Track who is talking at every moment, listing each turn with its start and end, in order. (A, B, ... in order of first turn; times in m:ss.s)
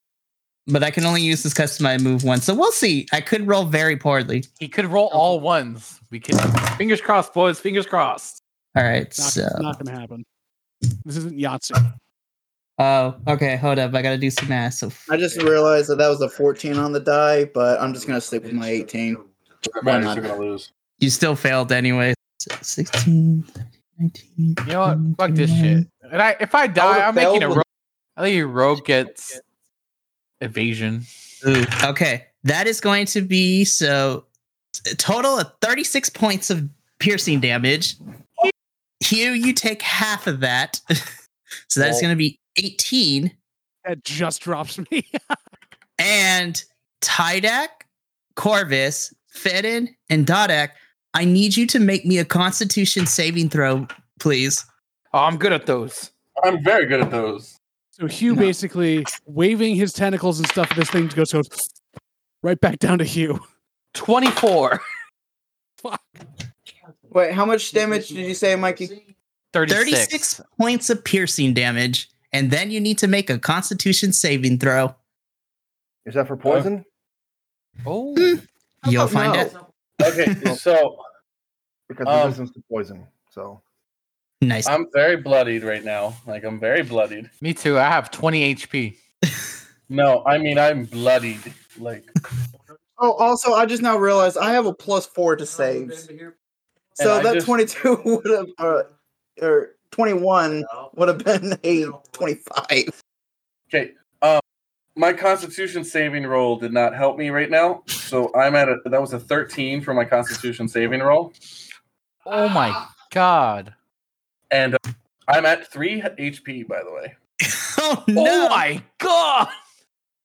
0:00.7-0:04.5 A
0:04.6-0:08.4 B
0:08.7-0:09.7 A
0:09.2-0:10.2 C
0:11.0-0:11.8 C
0:12.8-0:15.1 A
0:15.1-0:19.2 D
0:19.7-0:20.7 E
0:19.8-0:20.3 D
0:21.0-0:25.8 A
0:24.6-0:27.6 B
0:26.8-0:27.6 D
0:28.2-0:29.4 B
0:30.4-0:31.0 B
0:31.4-0:34.2 A
0:34.8-0:38.0 A
0:39.0-0:40.8 A
0:41.7-0:43.3 A
0:43.8-0:45.2 C
0:46.0-0:47.8 A
0:48.4-0:54.7 A
0:55.1-0:56.1 B
0:56.4-0:57.6 E
0:58.0-1:01.6 C
1:02.4-1:03.4 C
1:03.9-1:04.8 B
1:07.1-1:09.0 D
1:09.5-1:10.4 B
1:09.7-1:15.0 A
1:16.0-1:16.8 F
1:17.8-1:18.4 B
1:18.2-1:19.6 A
1:18.8-1:19.5 D
1:20.0-1:21.0 E
1:21.9-1:23.6 F
1:22.0-1:22.4 E
1:24.4-1:24.7 A
1:24.6-1:27.3 E
1:27.4-1:29.0 B
1:29.9-1:32.1 E
1:33.0-1:36.1 D
1:37.0-1:37.5 E
1:37.0-1:42.9 D
1:43.7-1:44.4 E
1:45.0-1:51.3 E
1:52.2-1:53.7 B
1:54.5-1:57.1 E
1:57.4-1:58.7 A
1:58.2-1:59.5 B